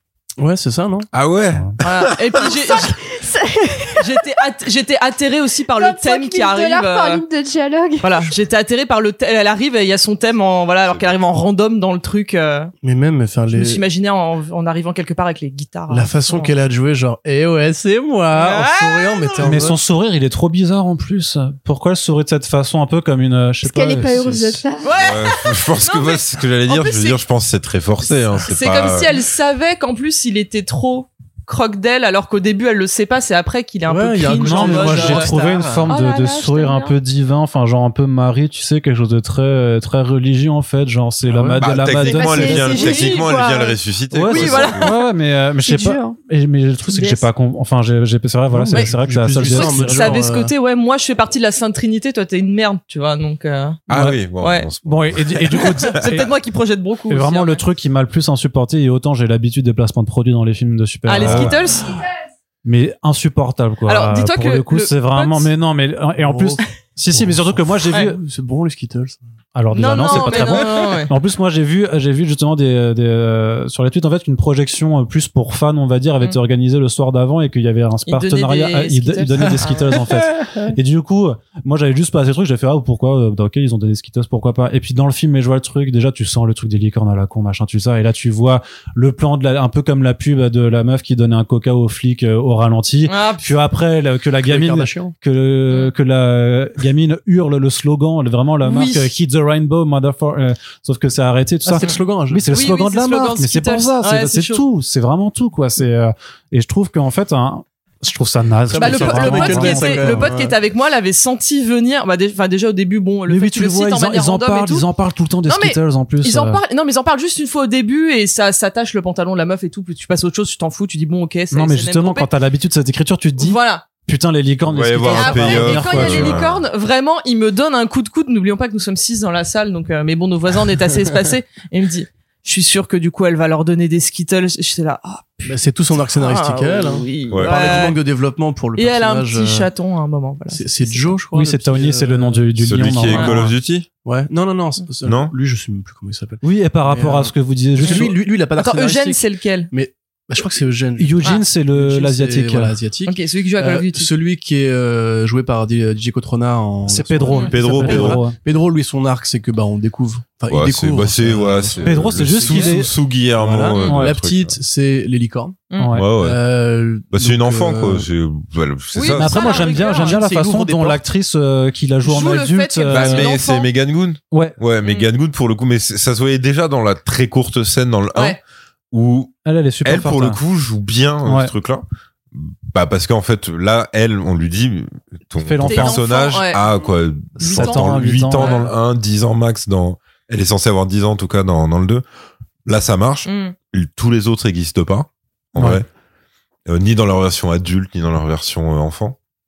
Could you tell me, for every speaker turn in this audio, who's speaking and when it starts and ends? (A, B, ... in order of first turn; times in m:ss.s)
0:00.4-0:01.1 A
0:01.1-0:02.5 B
0:01.8-0:03.0 C
0:03.0-0:04.2 D
0:04.0-0:07.2 C
0:05.8-0:08.3 D
0:08.0-0:12.7 C
0:12.8-0:13.8 A
0:13.5-0:16.5 C
0:15.9-0:19.8 A
0:18.3-0:19.6 C
0:19.4-0:24.6 E
0:23.6-0:24.9 D
0:24.8-0:27.2 C
0:25.0-0:29.2 B
0:28.4-0:37.0 C
0:33.9-0:35.9 A
0:34.3-0:42.8 E
0:41.3-0:41.6 A
0:41.6-0:44.9 B
0:42.0-0:43.8 D
0:42.6-0:43.3 C
0:44.1-0:50.2 E
0:44.2-0:45.0 C
0:45.6-0:46.2 D
0:46.9-0:47.3 D
0:48.5-0:50.5 A
0:48.7-0:53.8 C
0:53.9-0:56.2 B
0:53.9-0:54.2 E
0:54.4-0:54.7 C
0:54.8-0:56.3 E
0:55.6-0:57.6 C
0:57.1-1:01.6 E
1:01.1-1:02.0 C
1:01.2-1:01.6 B
1:02.6-1:08.2 E
1:03.9-1:05.5 C
1:06.2-1:09.2 A
1:09.6-1:50.3 E
1:09.7-1:11.1 C
1:10.0-1:11.0 A
1:18.1-1:20.1 C
1:33.1-1:33.5 C
1:34.5-1:35.2 A
1:38.6-1:39.1 C
1:41.7-1:42.5 A
1:42.5-1:44.6 C
1:48.7-1:50.6 A
1:48.7-1:54.9 C
1:53.3-1:56.6 E
1:55.5-2:02.3 C
2:01.5-2:06.4 E
2:03.4-2:03.9 C
2:04.7-2:06.6 B
2:05.1-2:15.6 C
2:15.5-2:19.7 A
2:16.1-2:18.0 C
2:18.8-2:21.1 C
2:20.5-2:22.4 A
2:21.3-2:23.6 E
2:22.6-2:23.9 B
2:23.1-2:23.3 C
2:24.0-2:48.1 A
2:25.0-2:25.3 B
2:26.4-2:28.1 E
2:27.8-2:29.7 C
2:31.0-2:32.8 E
2:33.1-2:34.1 C
2:36.9-2:38.4 E
2:37.3-2:38.2 C
2:37.5-2:38.2 B
2:40.5-2:44.6 B
2:41.8-2:42.9 E
2:43.9-2:44.2 E
2:45.7-2:46.0 C
2:45.8-2:46.1 E
2:45.9-2:46.4 B
2:47.1-2:49.5 B
2:48.9-2:50.5 C
2:49.1-2:53.3 E
2:49.8-2:51.0 A
2:52.0-2:53.7 C
2:52.9-2:58.4 B
2:54.3-2:54.6 E
2:54.8-2:55.1 C
2:58.1-2:58.4 C
2:58.9-3:01.8 B
2:59.4-3:00.4 E
3:01.2-3:01.5 E
3:02.3-3:12.0 B
3:05.4-3:06.0 E
3:05.6-3:06.6 C
3:07.4-3:08.6 E
3:07.4-3:08.7 C
3:12.7-3:15.9 B
3:13.3-3:13.6 C
3:15.6-3:15.8 E
3:16.7-3:19.2 B